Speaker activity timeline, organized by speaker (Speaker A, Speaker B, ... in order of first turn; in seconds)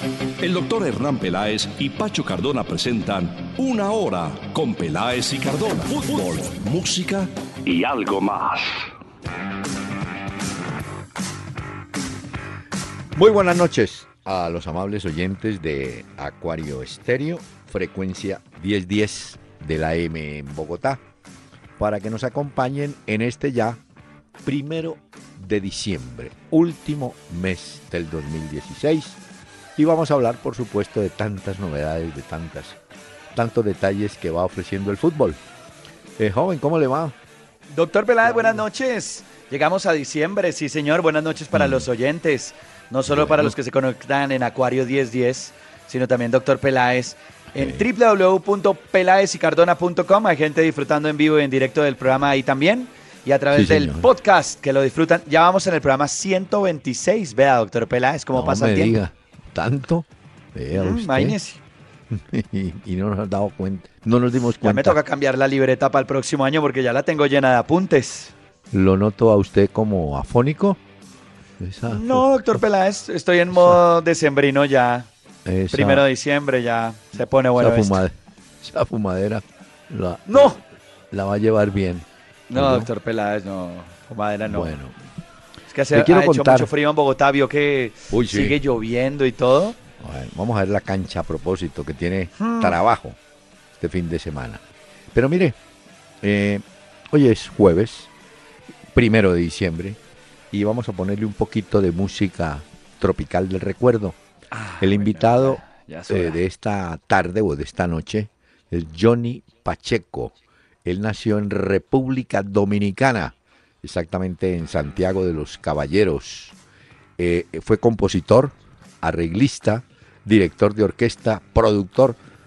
Speaker A: 0.4-8.7
Speaker B: 13.1-21.0, 21.8-23.8, 24.4-29.2, 29.8-32.8, 33.3-35.4, 36.2-37.1, 41.5-41.9, 43.0-43.5, 47.5-47.8, 53.5-54.1, 58.3-61.4, 62.1-65.0, 68.7-70.8, 71.6-72.6, 75.4-76.0, 77.5-82.9, 84.5-84.9, 85.9-86.7, 88.1-88.6, 90.0-93.2, 93.8-94.6, 95.1-95.6, 96.2-98.1, 98.9-100.0, 100.5-104.2, 104.8-116.5, 117.2-122.2
Speaker C: 37.7-59.0, 60.7-61.6, 64.6-68.3, 71.9-75.1, 75.7-78.0, 80.3-80.6, 82.5-84.7, 85.7-89.8, 92.4-92.8, 104.5-106.4